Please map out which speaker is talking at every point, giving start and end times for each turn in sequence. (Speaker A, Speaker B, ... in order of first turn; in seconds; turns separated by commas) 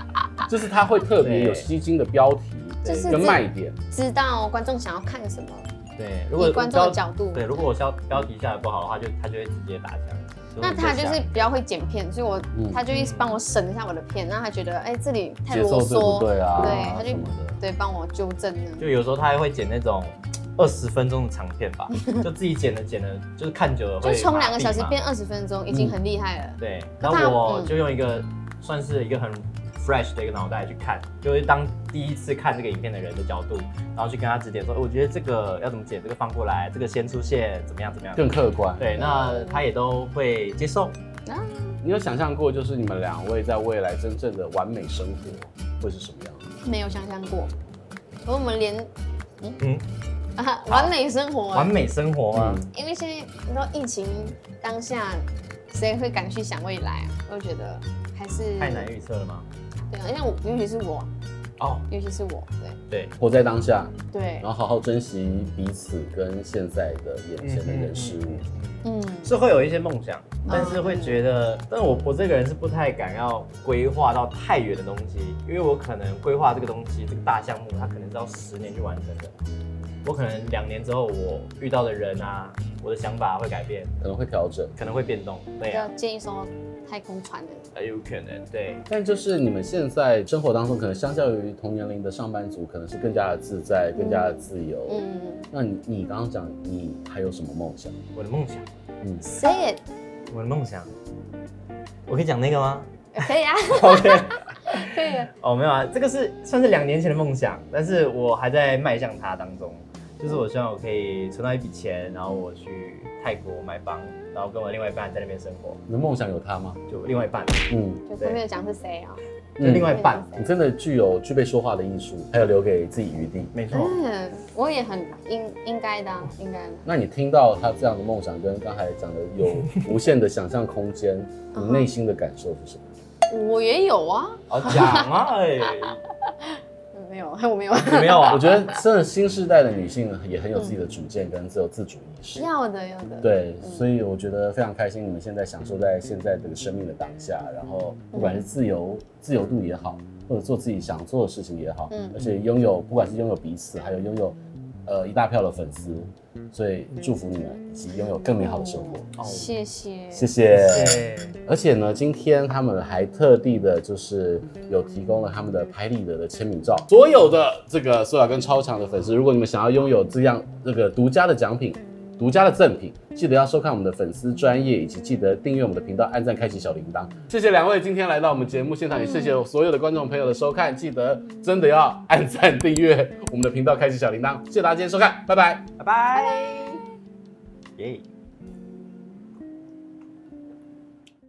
Speaker A: 0.5-3.8, Speaker B: 1.2-1.7, Speaker B: 2.8-3.4, Speaker C: 2.9-5.7, Speaker B: 6.0-11.4, Speaker C: 6.4-7.7, Speaker C: 10.6-18.9, Speaker A: 12.5-12.8, Speaker B: 12.9-13.4, Speaker A: 15.5-17.6, Speaker B: 16.6-17.0, Speaker B: 18.8-25.0, Speaker C: 21.9-22.2, Speaker C: 24.0-27.8, Speaker A: 25.7-26.0, Speaker B: 26.6-40.9, Speaker A: 38.1-38.9, Speaker C: 39.0-39.6, Speaker C: 41.2-41.8, Speaker A: 41.8-46.5, Speaker C: 46.6-47.5, Speaker C: 48.2-48.9, Speaker C: 50.4-51.8, Speaker B: 50.7-50.9, Speaker B: 51.5-52.6, Speaker A: 52.3-52.7, Speaker C: 52.7-58.9, Speaker B: 58.6-59.5, Speaker C: 59.9-61.1, Speaker B: 61.6-61.9, Speaker C: 61.9-62.8, Speaker A: 63.2-68.5, Speaker C: 64.1-64.5, Speaker B: 67.4-79.3, Speaker C: 68.8-69.3, Speaker C: 70.5-71.2, Speaker B: 80.0-83.9, Speaker A: 84.0-84.7, Speaker B: 84.8-85.9, Speaker C: 85.6-87.7, Speaker B: 87.7-88.8, Speaker A: 88.9-98.0, Speaker C: 94.0-95.4, Speaker B: 98.1-98.7, Speaker A: 99.0-99.2, Speaker C: 99.2-99.8, Speaker B: 100.3-100.9, Speaker B: 102.1-102.9, Speaker C: 103.2-105.3, Speaker B: 103.7-115.8, Speaker A: 115.9-116.8, Speaker B: 116.9-118.4, Speaker A: 117.7-118.0, Speaker C: 118.1-119.2, Speaker A: 119.6-123.5, Speaker B: 119.6-120.3, Speaker C: 119.7-120.5, Speaker B: 123.5-124.0, Speaker C: 123.7-126.9, Speaker A: 126.8-132.9, Speaker C: 131.5-131.9, Speaker C: 133.3-135.1, Speaker B: 134.5-136.0, Speaker C: 136.9-138.8, Speaker B: 137.7-138.5, Speaker A: 138.3-142.5, Speaker C: 142.3-143.9, Speaker A: 143.2-159.1, Speaker C: 148.1-148.4, Speaker C: 151.9-152.2, Speaker C: 158.4-160.3, Speaker B: 159.2-159.5, Speaker A: 160.1-185.7, Speaker B: 160.5-161.4, Speaker C: 178.9-179.4, Speaker B: 185.8-186.6, Speaker C: 186.1-186.8, Speaker B: 187.8-188.0